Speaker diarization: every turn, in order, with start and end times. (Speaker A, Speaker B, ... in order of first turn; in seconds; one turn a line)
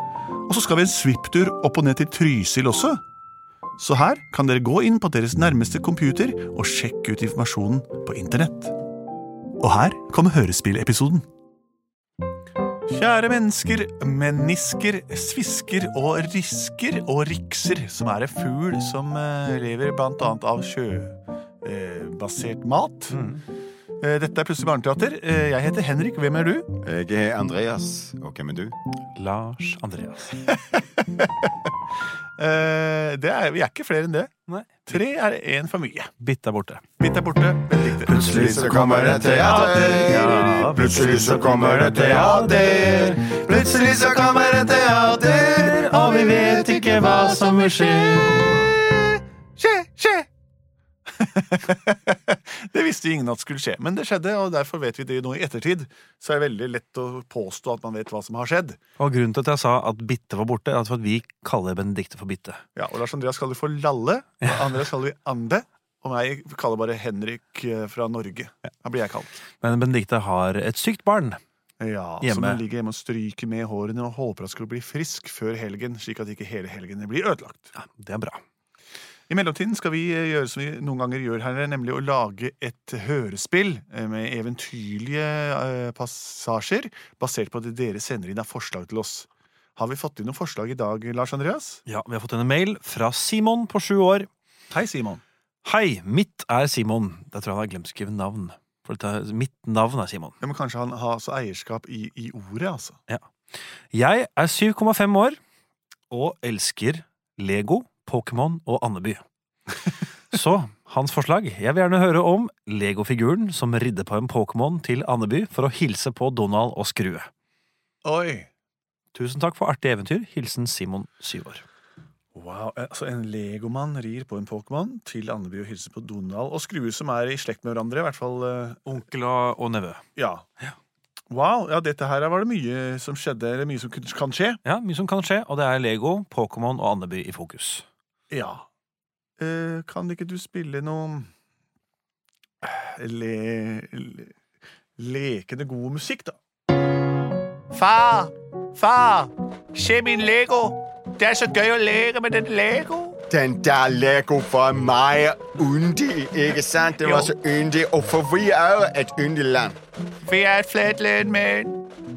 Speaker A: 0.5-3.0
Speaker A: 3.8-8.7
Speaker A: 9.6-11.3
Speaker A: 12.9-23.2
Speaker A: 24.0-26.7
Speaker B: 26.8-28.8
Speaker C: 29.2-30.3
Speaker A: 30.7-31.5
Speaker A: 32.4-34.3
Speaker C: 34.5-34.9
Speaker A: 34.9-36.1
Speaker C: 36.2-36.8
Speaker A: 37.0-38.4
Speaker C: 38.0-48.5
Speaker B: 38.1-43.2
Speaker A: 48.4-50.3
Speaker A: 51.2-58.8
Speaker C: 59.0-62.6
Speaker A: 62.8-69.4
Speaker C: 64.5-64.8
Speaker C: 69.6-71.4
Speaker A: 71.8-77.7
Speaker C: 72.2-72.6
Speaker C: 77.8-78.4
Speaker A: 79.3-91.8
Speaker C: 91.9-94.3
Speaker A: 94.7-95.2
Speaker C: 95.7-100.3
Speaker A: 100.4-103.0
Speaker C: 103.9-105.4
Speaker C: 106.1-109.2
Speaker C: 110.3-117.3
Speaker A: 118.0-118.5
Speaker C: 119.1-121.6
Speaker A: 122.3-128.8
Speaker C: 128.9-130.0
Speaker A: 130.2-130.5
Speaker A: 131.3-134.6
Speaker C: 134.7-137.8
Speaker A: 138.3-138.6
Speaker A: 139.4-141.3
Speaker A: 142.6-144.3
Speaker A: 145.0-146.4
Speaker A: 147.7-153.2
Speaker B: 153.3-159.8
Speaker A: 157.0-157.3
Speaker A: 160.3-161.8